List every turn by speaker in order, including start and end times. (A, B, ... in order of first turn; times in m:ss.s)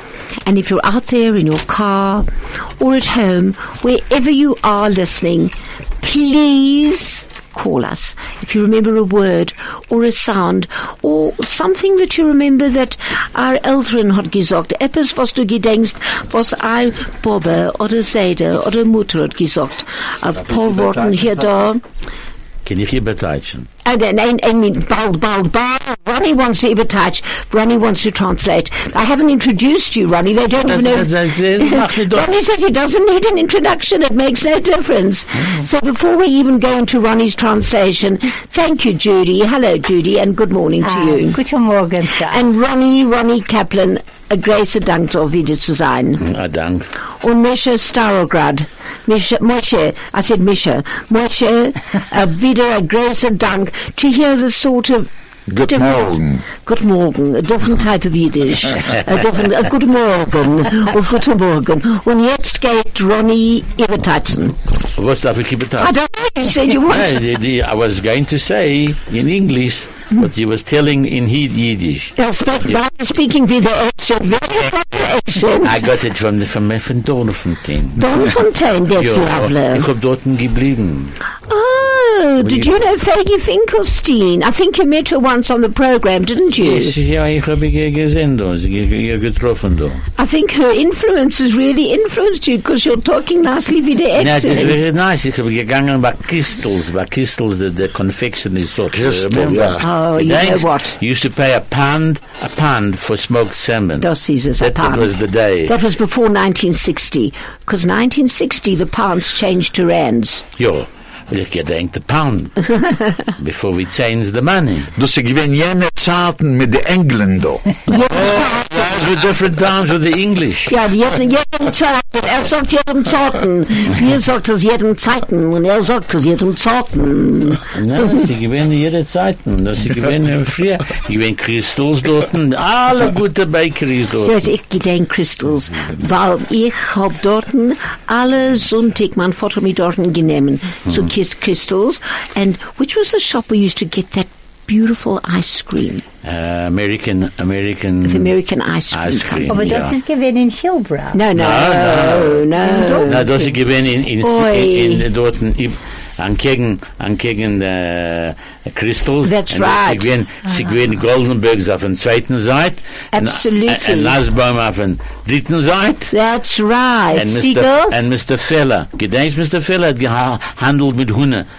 0:00.4-0:02.3 A
0:02.8-0:21.8 A
0:20.5-0:21.3 B
0:22.6-0:23.7 B
0:23.8-0:41.4 A
0:30.6-0:32.3 B
0:40.8-0:42.4 C
0:42.3-0:46.2 A
0:46.2-0:46.9 B
0:47.2-0:55.1 A
0:55.5-0:56.4 D
0:55.7-1:04.6 A
1:05.0-1:05.9 B
1:05.8-1:07.2 A
1:06.9-1:12.8 B
1:12.2-1:15.8 A
1:15.6-1:18.3 B
1:18.0-1:19.9 A
1:18.9-1:21.2 B
1:21.5-1:26.9 A
1:22.4-1:22.7 B
1:26.6-1:30.0 B
1:30.2-1:34.8 A
1:34.2-1:44.1 B
1:38.9-1:39.8 D
1:39.8-1:40.9 A
1:44.0-1:45.1 A
1:44.6-1:45.7 B
1:45.6-1:50.4 A
1:50.6-1:52.7 B
1:53.4-1:54.9 B
1:54.9-1:57.9 D
1:57.9-1:59.0 A
1:58.1-2:00.7 B
2:00.7-2:08.1 A
2:07.7-2:14.4 B
2:14.2-2:26.0 A
2:26.2-2:28.3 B
2:28.0-2:29.6 A
2:28.9-2:30.0 B
2:29.4-2:31.2 C
2:31.1-2:33.5 A
2:31.3-2:32.5 B
2:32.6-2:33.3 C
2:33.0-2:46.1 B
2:34.2-2:35.0 A
2:39.2-2:40.1 A
2:43.1-2:44.2 A
2:46.1-2:47.3 A
2:47.1-2:51.5 B
2:47.2-2:48.0 C